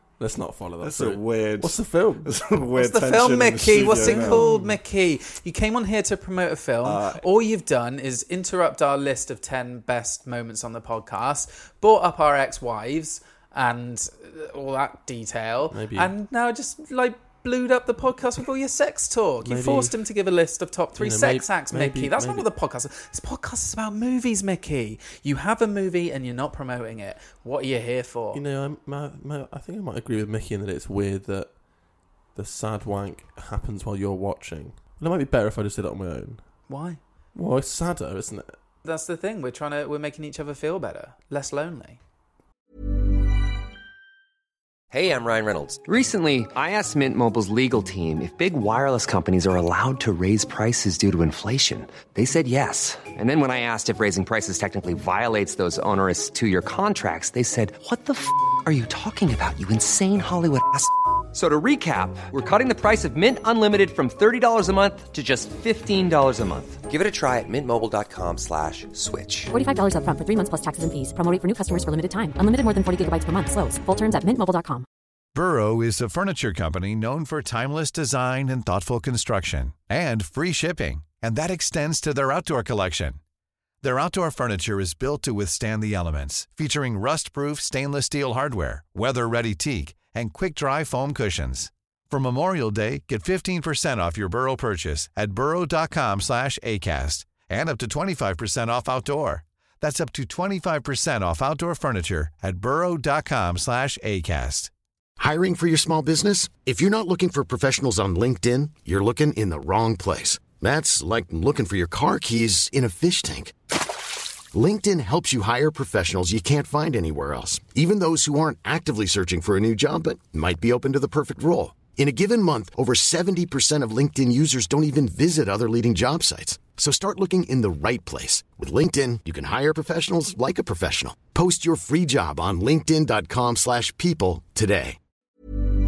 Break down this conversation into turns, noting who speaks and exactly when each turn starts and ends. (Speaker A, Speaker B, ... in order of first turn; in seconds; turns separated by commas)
Speaker A: 0.2-2.3, Speaker B: 0.8-4.8, Speaker C: 2.7-28.4, Speaker A: 3.9-4.6, Speaker B: 6.8-7.2, Speaker A: 15.7-16.1, Speaker A: 19.4-19.9, Speaker A: 21.0-22.5, Speaker A: 28.3-31.6, Speaker A: 32.3-36.4, Speaker C: 36.7-37.0, Speaker A: 37.3-38.5, Speaker C: 38.8-42.0, Speaker D: 44.9-69.5, Speaker E: 69.5-74.8, Speaker F: 75.3-83.2, Speaker F: 83.8-104.7, Speaker G: 105.2-113.5, Speaker G: 114.5-135.0